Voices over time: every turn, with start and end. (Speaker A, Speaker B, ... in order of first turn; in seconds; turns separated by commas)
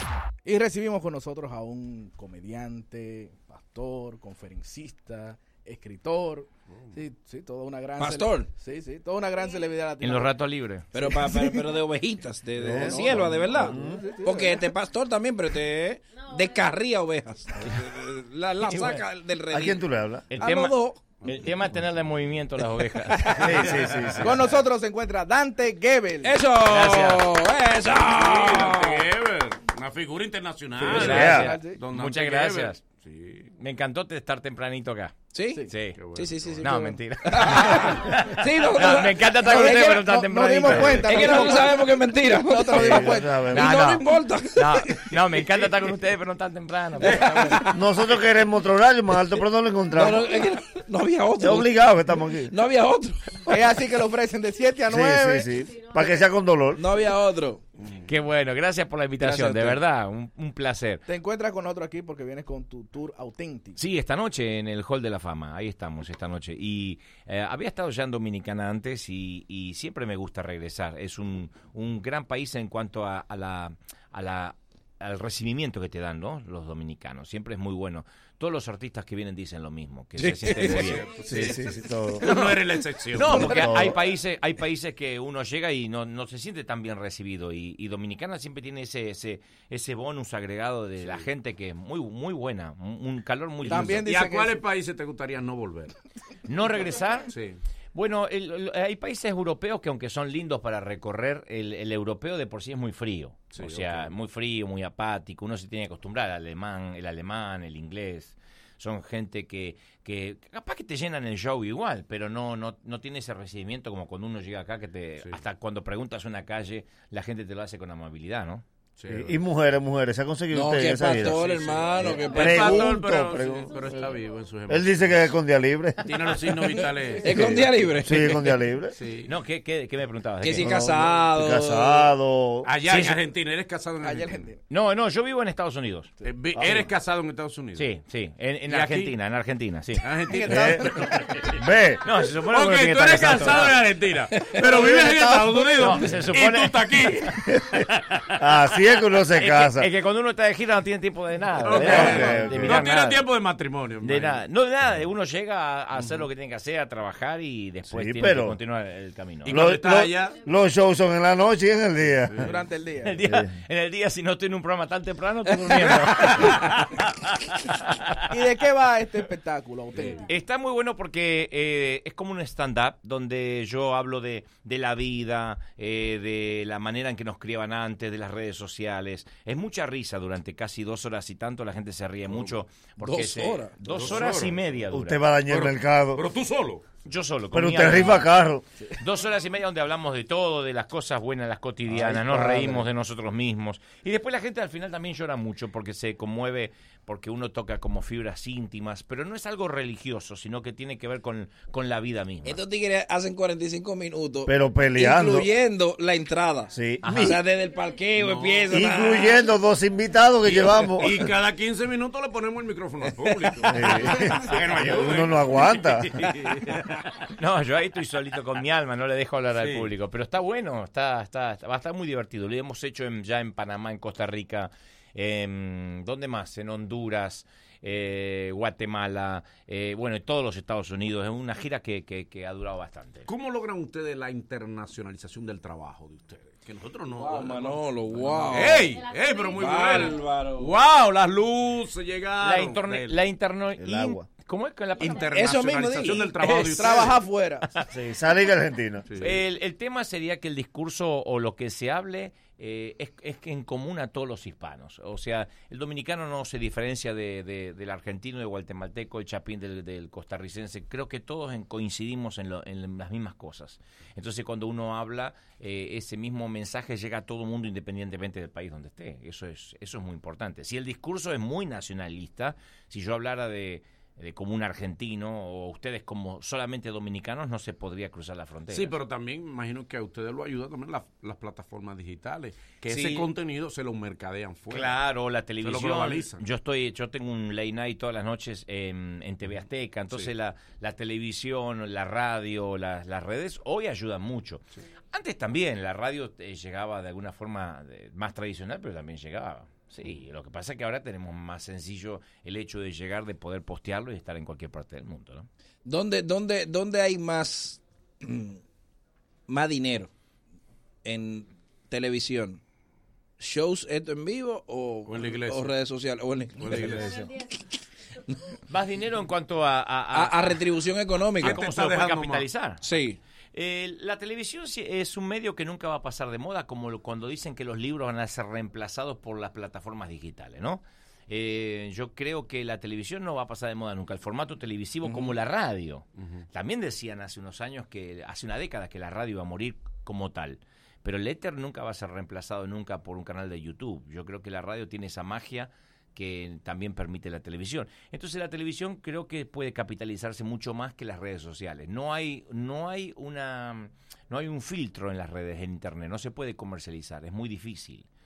Speaker A: 0.5-10.4, Speaker B: 8.0-8.5, Speaker C: 10.0-10.9, Speaker B: 10.9-19.8, Speaker A: 11.0-11.7, Speaker A: 12.6-14.7, Speaker D: 12.6-14.0, Speaker C: 18.7-19.0, Speaker D: 19.5-20.3, Speaker C: 20.3-23.4, Speaker B: 20.4-21.0, Speaker B: 23.3-23.5, Speaker D: 23.4-24.4, Speaker E: 23.8-24.2, Speaker A: 24.2-26.4, Speaker B: 26.2-29.1, Speaker C: 26.6-27.3, Speaker E: 27.9-33.5, Speaker D: 30.8-31.4, Speaker C: 30.9-32.8, Speaker A: 30.9-31.8, Speaker C: 33.6-36.0, Speaker B: 35.3-40.1, Speaker E: 36.0-36.7, Speaker C: 36.6-41.3, Speaker A: 39.4-43.4, Speaker B: 40.7-45.1, Speaker D: 42.7-43.7, Speaker C: 43.5-47.5, Speaker B: 47.0-47.8, Speaker D: 47.7-50.3, Speaker B: 50.0-51.8, Speaker D: 51.4-52.5, Speaker B: 52.5-53.5, Speaker A: 53.5-55.5, Speaker D: 54.9-56.9, Speaker B: 56.8-57.6, Speaker E: 57.8-58.0, Speaker C: 58.1-61.0, Speaker B: 59.2-59.7, Speaker A: 61.1-63.8, Speaker C: 63.8-81.2, Speaker B: 80.2-81.0, Speaker E: 80.5-81.6, Speaker D: 81.2-82.3, Speaker E: 82.2-83.9, Speaker C: 82.2-82.6, Speaker C: 83.2-94.0, Speaker D: 83.2-84.0, Speaker E: 91.0-91.3, Speaker A: 93.6-94.6, Speaker E: 93.6-96.0, Speaker C: 96.5-97.3, Speaker E: 97.3-97.6, Speaker C: 97.9-118.7, Speaker E: 103.5-104.2, Speaker E: 119.0-119.4, Speaker D: 119.1-121.4, Speaker B: 120.5-122.9, Speaker E: 121.3-125.2, Speaker D: 122.0-123.8, Speaker D: 124.7-126.2, Speaker E: 126.0-127.9, Speaker B: 127.2-128.5, Speaker D: 127.4-128.9, Speaker E: 128.9-129.3, Speaker C: 129.3-130.8, Speaker B: 130.4-132.1, Speaker D: 130.5-132.7, Speaker E: 132.7-134.5, Speaker C: 132.9-133.2, Speaker A: 134.0-134.6, Speaker C: 134.7-136.1, Speaker E: 136.2-137.9, Speaker D: 136.6-136.8, Speaker C: 137.8-140.1, Speaker E: 138.7-139.2, Speaker E: 140.0-141.6, Speaker A: 140.3-140.8, Speaker D: 140.5-140.9, Speaker D: 141.5-142.0, Speaker C: 142.0-143.8, Speaker E: 142.5-147.4, Speaker D: 144.8-145.6, Speaker C: 145.8-147.4, Speaker D: 148.4-149.9, Speaker C: 149.3-153.3, Speaker E: 151.6-154.4, Speaker D: 151.8-152.7, Speaker C: 154.0-159.7, Speaker E: 155.9-156.3, Speaker D: 157.9-158.6, Speaker E: 159.4-160.4, Speaker D: 159.5-162.5, Speaker E: 162.3-162.5, Speaker A: 162.4-163.2, Speaker C: 163.0-166.9, Speaker D: 163.2-163.5, Speaker A: 168.3-170.2, Speaker E: 169.9-170.2, Speaker C: 170.3-185.3, Speaker E: 182.3-182.6, Speaker B: 183.0-184.2, Speaker E: 183.9-184.8, Speaker D: 184.9-186.2, Speaker E: 185.5-187.0, Speaker C: 187.1-188.3, Speaker D: 187.5-188.7, Speaker C: 189.0-202.6, Speaker D: 192.0-192.8, Speaker B: 192.3-192.7, Speaker B: 202.4-209.3, Speaker D: 204.5-205.5, Speaker D: 206.7-207.3, Speaker C: 207.0-207.4, Speaker E: 208.2-208.7, Speaker D: 208.7-211.3, Speaker E: 210.5-216.9, Speaker D: 213.6-216.3, Speaker C: 217.4-233.3, Speaker E: 219.6-219.9, Speaker E: 233.3-243.2, Speaker B: 237.2-238.9, Speaker B: 239.6-240.7, Speaker C: 242.4-245.3, Speaker D: 243.8-244.3, Speaker E: 245.0-247.2, Speaker B: 245.3-247.2, Speaker A: 246.8-247.6, Speaker D: 247.9-249.1, Speaker E: 249.1-249.4, Speaker C: 249.2-278.9, Speaker E: 278.7-285.0, Speaker C: 282.9-283.2, Speaker C: 284.7-305.5, Speaker E: 285.6-286.4, Speaker B: 305.9-308.6, Speaker B: 309.5-310.1, Speaker B: 311.0-312.6, Speaker B: 313.4-317.3, Speaker E: 315.1-315.7, Speaker E: 316.6-317.2, Speaker C: 318.7-320.6, Speaker B: 320.1-321.6, Speaker C: 321.4-322.9, Speaker E: 321.4-322.5, Speaker B: 322.8-323.2, Speaker C: 323.5-358.1, Speaker E: 336.2-336.4